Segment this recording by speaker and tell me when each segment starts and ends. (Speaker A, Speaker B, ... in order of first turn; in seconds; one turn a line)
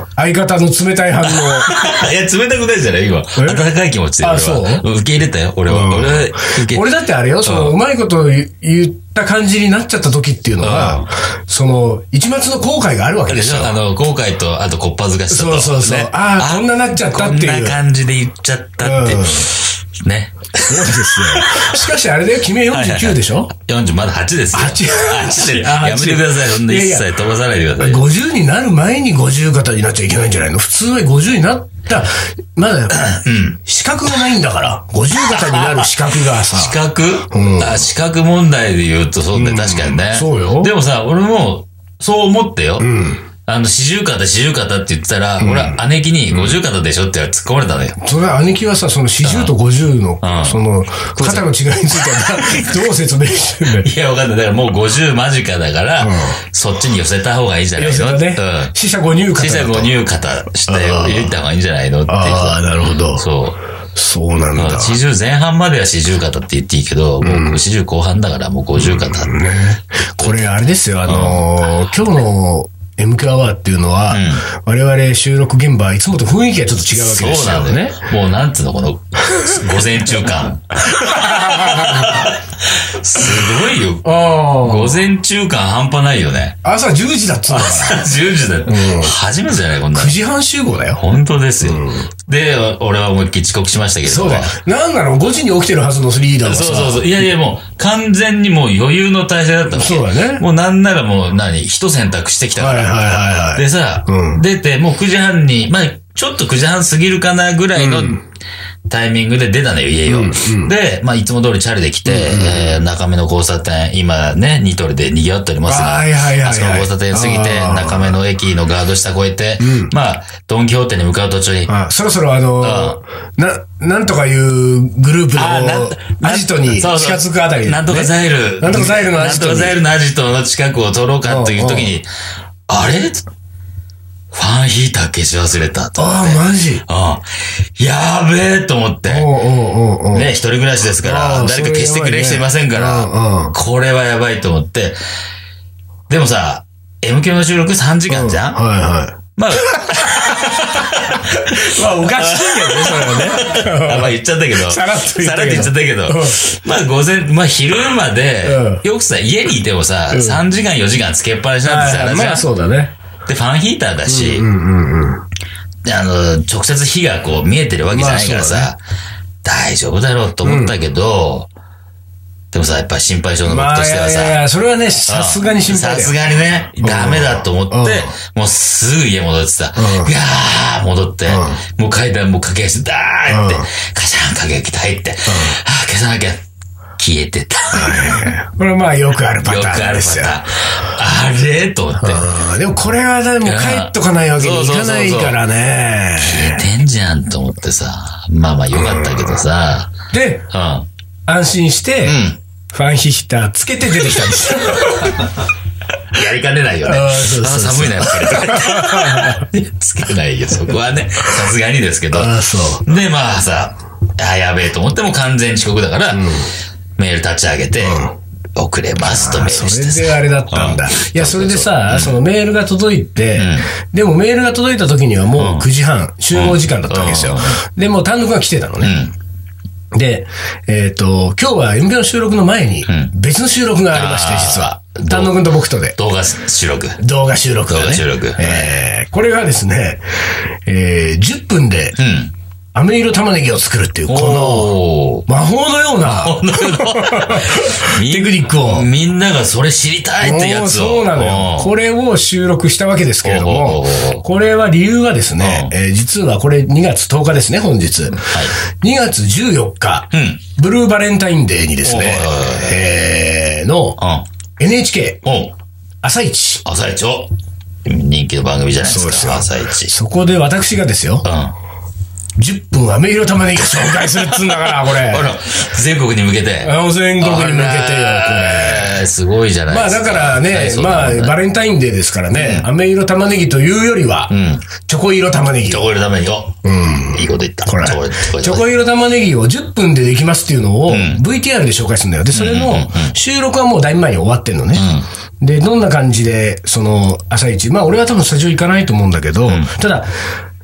Speaker A: 0.1-1.9
Speaker B: 1.2-7.7
Speaker A: 3.4-3.6
Speaker A: 4.2-4.8
Speaker A: 5.7-13.8
Speaker B: 10.6-11.1
Speaker B: 13.3-21.8
Speaker A: 15.3-17.8
Speaker A: 18.8-19.5
Speaker A: 20.6-23.5
Speaker B: 22.7-28.0
Speaker A: 24.5-27.1
Speaker A: 27.8-33.1
Speaker B: 32.9-33.6
Speaker A: 33.6-36.8
Speaker B: 35.1-42.9
Speaker A: 37.3-37.9
Speaker A: 39.3-40.7
Speaker A: 42.8-43.2
Speaker B: 43.5-48.0
Speaker A: 45.4-45.8
Speaker A: 46.3-46.6
Speaker A: 48.0-53.9
Speaker B: 49.2-49.5
Speaker B: 50.2-50.6
Speaker B: 51.1-52.9
Speaker B: 53.6-58.7
Speaker A: 56.0-56.4
Speaker A: 57.8-59.9
Speaker B: 59.4-63.6
Speaker A: 60.7-61.3
Speaker A: 62.1-63.2
Speaker A: 63.9-65.0
Speaker B: 64.5-69.3
Speaker A: 67.2-67.6
Speaker A: 68.8-78.0
Speaker B: 70.2-70.5
Speaker B: 71.0-71.4
Speaker B: 74.1-74.5
Speaker B: 76.9-86.6
Speaker A: 79.2-79.7
Speaker A: 80.8-82.3
Speaker A: 84.0-85.0
Speaker A: 86.6-88.0
Speaker B: 87.5-90.2
Speaker A: 88.7-89.2
Speaker A: 89.9-91.0
Speaker B: 90.9-94.5
Speaker A: 91.6-92.1
Speaker A: 94.0-97.0
Speaker B: 96.4-103.0
Speaker A: 99.7-100.4
Speaker A: 102.6-104.4
Speaker B: 103.5-108.2
Speaker A: 107.8-108.2
Speaker B: 108.9-121.7
Speaker A: 110.1-110.7
Speaker A: 112.0-112.8
Speaker A: 115.7-118.2
Speaker A: 119.6-119.9
Speaker A: 121.7-129.8
Speaker B: 122.6-123.0
Speaker B: 125.3-132.1
Speaker A: 131.2-131.9
Speaker B: 132.7-133.2
Speaker B: 134.3-139.3
Speaker A: 136.0-136.8
Speaker A: 139.1-140.3
Speaker B: 140.1-145.0
Speaker A: 141.0-143.6
Speaker B: 146.1-148.6
Speaker A: 148.1-156.4
Speaker B: 149.3-162.5
Speaker A: 158.4-158.8
Speaker A: 160.1-160.4
Speaker A: 161.6-162.9
Speaker B: 163.2-164.4
Speaker A: 164.1-165.3
Speaker B: 165.8-168.8
Speaker A: 167.9-168.7
Speaker B: 169.4-171.5
Speaker A: 170.4-170.7
Speaker B: 172.5-174.4
Speaker A: 173.4-176.1
Speaker B: 175.1-186.4
Speaker A: 176.8-178.1
Speaker A: 179.8-180.1
Speaker A: 181.3-181.6
Speaker A: 183.3-183.7
Speaker A: 185.3-185.6
Speaker B: 187.0-188.3
Speaker A: 187.7-190.4
Speaker B: 189.4-192.3
Speaker A: 192.0-196.7
Speaker B: 193.4-195.4
Speaker B: 196.2-199.9
Speaker A: 198.8-199.3
Speaker A: 200.1-200.5
Speaker B: 200.5-200.9
Speaker A: 201.3-202.2
Speaker B: 202.0-202.4
Speaker A: 202.7-205.3
Speaker B: 204.8-205.2
Speaker B: 206.1-216.3
Speaker A: 206.8-209.5
Speaker A: 212.1-212.8
Speaker A: 216.1-216.5
Speaker B: 217.0-218.0
Speaker A: 217.8-218.1
Speaker B: 218.6-222.2
Speaker A: 219.0-229.0
Speaker B: 223.3-223.7
Speaker B: 225.3-225.7
Speaker B: 226.3-227.6
Speaker B: 228.8-229.1
Speaker A: 229.9-236.0
Speaker B: 232.8-233.1
Speaker B: 233.9-237.0
Speaker A: 237.0-240.0
Speaker B: 237.7-238.7
Speaker A: 240.7-242.0
Speaker B: 242.0-242.3
Speaker A: 242.7-244.7
Speaker B: 244.1-245.2
Speaker A: 245.3-248.9
Speaker B: 246.0-251.7
Speaker A: 250.2-264.0
Speaker B: 253.2-254.2
Speaker B: 255.4-255.7
Speaker B: 258.2-258.5
Speaker B: 260.1-260.4
Speaker B: 261.8-262.8
Speaker B: 264.0-264.2
Speaker A: 264.6-265.2
Speaker B: 265.2-265.5
Speaker A: 266.0-266.6
Speaker B: 266.6-267.3
Speaker B: 267.8-269.9
Speaker A: 268.8-271.3
Speaker B: 271.2-271.5
Speaker A: 272.4-275.3
Speaker B: 274.6-281.4
Speaker A: 276.6-279.1
Speaker A: 279.7-285.9
Speaker B: 282.3-282.7
Speaker B: 284.3-284.7
Speaker B: 285.7-286.6
Speaker A: 286.6-300.1
Speaker B: 287.1-288.7
Speaker B: 290.9-291.2
Speaker B: 292.3-293.1
Speaker B: 294.7-295.1
Speaker B: 299.4-299.7